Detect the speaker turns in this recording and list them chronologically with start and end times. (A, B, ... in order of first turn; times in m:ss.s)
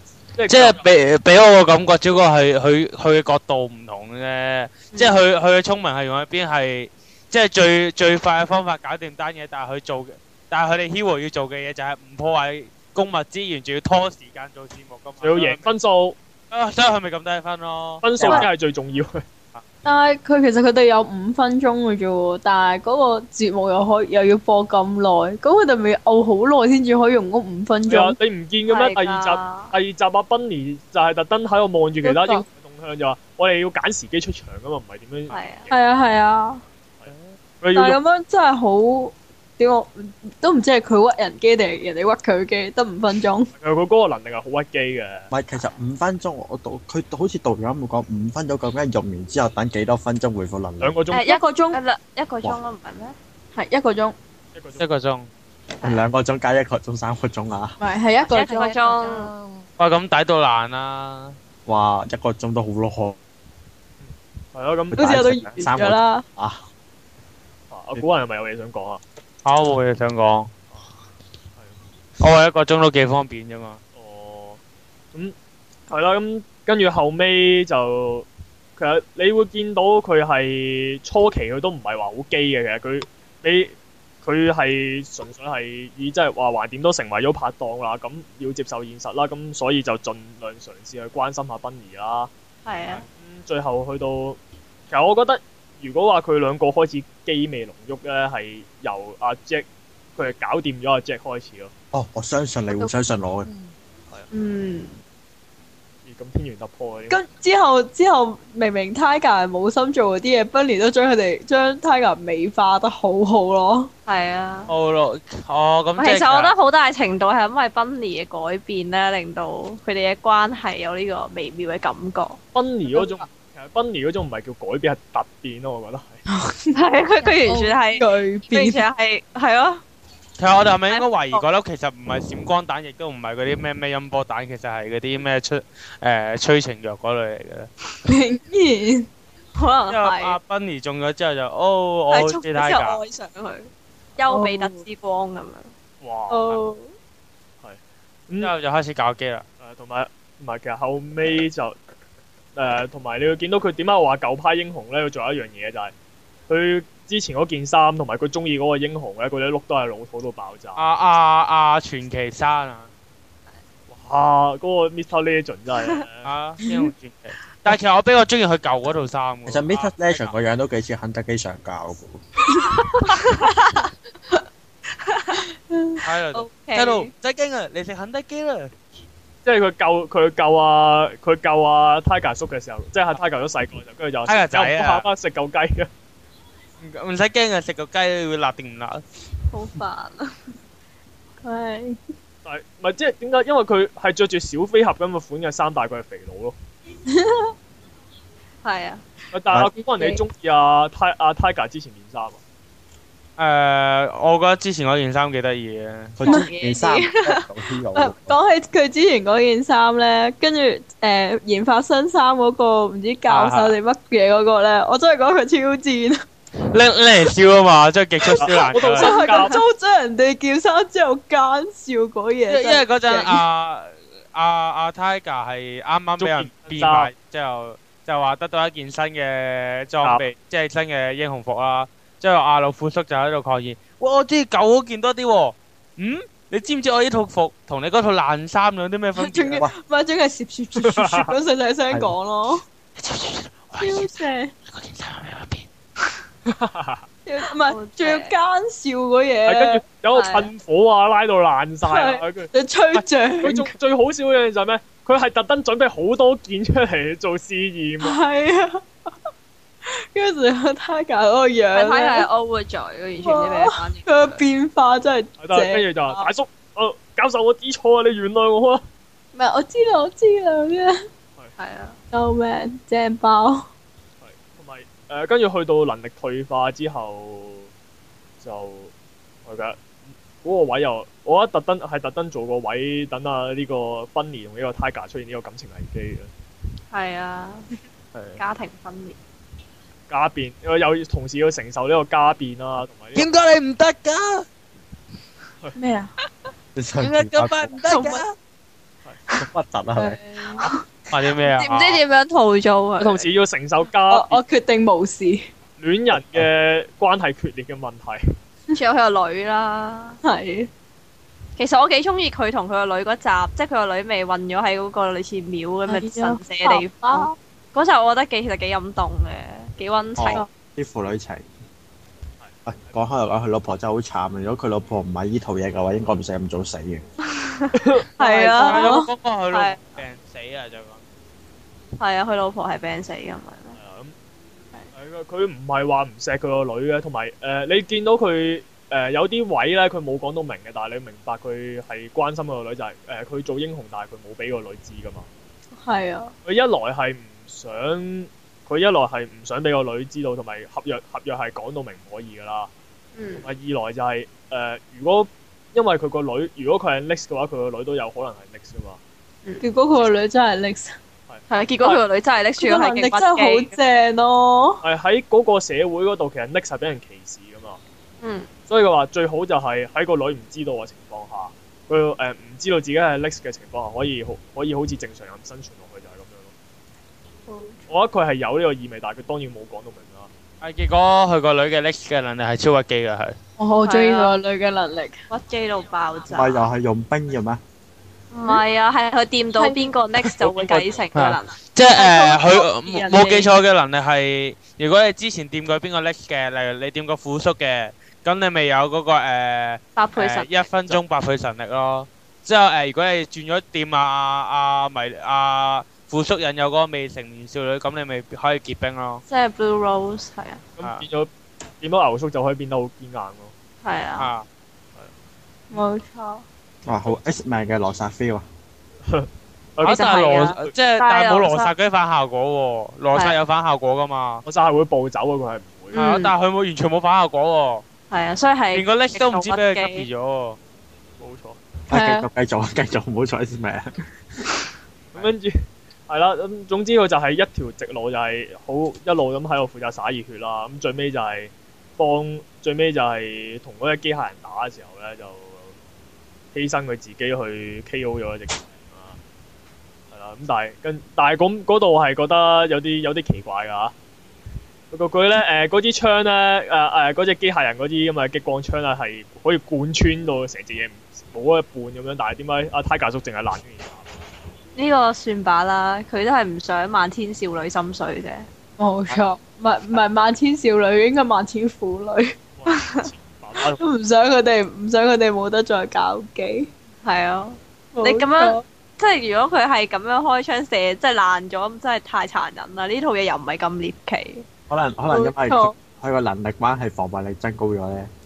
0:00.3-0:00.8 A
0:00.5-0:15.7 B
0:04.9-0:05.2 C
0:15.2-0:16.2 A
0:16.5-0:18.5 B
0:18.0-0:19.2 A
0:19.8-0:28.2 D
0:27.9-0:35.8 A
0:28.7-0:29.7 C
0:32.0-0:32.4 D
0:35.3-0:35.7 C
0:35.7-0:36.6 D
0:37.0-0:38.0 A
0:37.1-0:37.3 B
0:37.7-0:43.5 D
0:43.6-0:45.3 A
0:45.3-0:50.9 E
0:45.5-0:45.8 C
0:50.8-0:51.2 A
0:51.1-0:53.1 C
0:51.2-0:51.8 D
0:53.5-0:54.2 D
0:54.5-0:54.8 A
0:54.8-0:55.3 B
0:55.8-0:57.8 E
0:57.8-0:58.7 D
0:58.3-0:59.3 C
0:58.3-0:59.7 F
0:59.8-1:01.4 B
1:01.6-1:03.2 E
1:04.0-1:05.0 A
1:04.9-1:06.6 E
1:04.9-1:06.2 D
1:07.7-1:09.0 A
1:09.4-1:10.5 B
1:11.6-1:11.8 A
1:12.2-1:13.8 B
1:13.9-1:14.6 A
1:15.9-1:32.3 A
1:32.6-1:33.0 C
1:33.0-1:34.4 A
1:34.9-1:41.7 A
1:41.9-1:43.5 E
1:43.4-1:43.7 F
1:44.3-1:45.0 C
1:46.0-1:47.2 A
1:47.1-1:53.9 D
1:54.1-1:54.7 C
1:54.7-1:56.5 B
1:56.0-2:02.4 C
2:02.5-2:06.2 A
2:02.9-2:03.2 D
2:06.3-2:06.8 D
2:06.7-2:09.8 C
2:07.2-2:07.6 F
2:07.5-2:08.8 D
2:10.4-2:17.7 B
2:10.9-2:11.4 C
2:18.0-2:19.1 D
2:19.6-2:20.4 C
2:19.9-2:23.0 B
2:22.1-2:25.7 C
2:24.3-2:24.8 D
2:26.0-2:26.5 A
2:26.3-2:26.9 D
2:27.6-2:28.5 A
2:28.4-2:29.4 B
2:29.6-2:31.8 A
2:32.6-2:35.9 A
2:36.5-2:40.8 A
2:40.8-2:42.9 B
2:43.9-2:46.3 A
2:46.2-2:50.3 B
2:46.6-2:46.9 D
2:49.4-2:52.2 E
2:52.6-2:53.1 D
2:53.0-2:53.8 C
2:55.0-2:55.4 C
2:55.7-2:56.0 D
2:56.0-2:58.7 B
2:56.3-2:57.1 C
2:59.4-3:05.9 A
3:04.3-3:05.0 B
3:06.8-3:09.0 B
3:09.5-3:10.4 C
3:11.4-3:12.0 D
3:12.4-3:16.6 A
3:17.1-3:17.5 D
3:18.6-3:19.0 C
3:19.3-3:22.4 A
3:19.7-3:20.2 D
3:23.4-3:26.2 B
3:26.2-3:28.4 E
3:26.2-3:27.4 C
3:27.9-3:36.2 D
3:33.3-3:33.8 B
3:36.7-3:39.3 B
3:38.2-3:43.4 D
3:38.3-3:39.6 A
3:42.5-3:59.6 B
3:46.2-3:47.1 A
3:59.2-4:02.6 D
4:00.8-4:01.3 A
4:03.0-4:04.2 B
4:03.8-4:04.5 D
4:04.7-4:05.7 B
4:06.4-4:07.0 A
4:07.2-4:09.8 D
4:07.7-4:08.3 C
4:09.5-4:18.2 A
4:10.1-4:10.5 C
4:11.8-4:13.7 D
4:18.0-4:18.8 D
4:19.8-4:22.3 D
4:21.7-4:24.4 C
4:23.2-4:26.2 D
4:25.4-4:28.8 A
4:29.3-4:31.0 D
4:31.6-4:32.0 C
4:32.1-4:33.7 D
4:34.2-4:37.7 A
4:38.4-4:38.9 A
4:39.4-4:39.8 A
4:40.4-4:46.3 A
4:46.9-4:47.6 C
4:48.4-4:49.2 C
4:50.1-4:53.3 A
4:53.1-4:54.4 B
4:55.7-4:56.1 D
4:56.8-4:57.8 E
4:57.0-4:58.3 B
4:59.4-5:00.2 E
5:00.0-5:00.8 D
5:01.1-5:02.0 B
5:01.4-5:03.3 C
5:03.0-5:04.4 A
5:04.1-5:05.5 D
5:05.8-5:08.2 A
5:06.1-5:06.4 E
5:08.7-5:10.2 C
5:10.2-5:10.7 D
5:11.6-5:20.4 C
5:15.9-5:17.3 D
5:20.2-5:21.4 E
5:22.6-5:27.0 E
5:27.3-5:28.9 C
5:27.8-5:28.0 A
5:28.2-5:29.1 D
5:28.5-5:31.0 B
5:29.5-5:29.8 C
5:32.0-5:33.8 C
5:33.8-5:34.1 A
5:34.9-5:45.3 A
5:45.8-5:46.3 D
5:46.4-5:52.7 A
5:53.1-5:53.5 C
5:53.4-5:59.0 A
5:59.6-6:00.9 D
6:01.3-6:02.0 A
6:01.5-6:03.7 C
6:02.6-6:04.8 D
6:04.8-6:07.8 A
6:08.2-6:08.5 C
6:08.7-6:16.5 A
6:17.5-6:17.8 D
6:17.9-6:20.3 A
6:20.6-6:23.3 B
6:23.6-6:25.2 D
6:23.8-6:24.4 C
6:25.3-6:26.6 C
6:26.3-6:27.6 E
6:28.3-6:31.5 C
6:29.6-6:29.9 D
6:30.5-6:30.9 A
6:31.1-6:49.2 B
6:31.9-6:33.4 D
6:40.0-6:40.6 C
6:49.3-6:50.6 C
6:50.8-6:51.3 A
6:51.8-6:53.5 A
6:53.8-6:54.3 C
6:54.2-6:54.5 B
6:55.7-6:56.4 D
6:56.8-6:58.4 E
6:59.0-7:00.1 A
6:59.8-7:04.4 B
6:59.8-7:01.7 C
7:03.1-7:03.4 C
7:04.4-7:06.0 A
7:05.9-7:06.3 C
7:05.9-7:07.8 B
7:08.1-7:10.1 C
7:08.7-7:10.6 B
7:11.2-7:11.6 A
7:11.9-7:13.9 E
7:11.9-7:12.3 D
7:15.1-7:25.7 A
7:26.5-7:29.2 A
7:30.1-7:33.9 A
7:34.9-7:44.1 A
7:44.8-7:48.5 C
7:48.8-7:52.4 D
7:52.5-7:53.8 A
7:52.7-7:53.0 C
7:53.7-7:56.7 D
7:57.0-8:04.4 C
7:57.9-7:58.6 D
8:04.7-8:08.1 E
8:05.1-8:05.7 D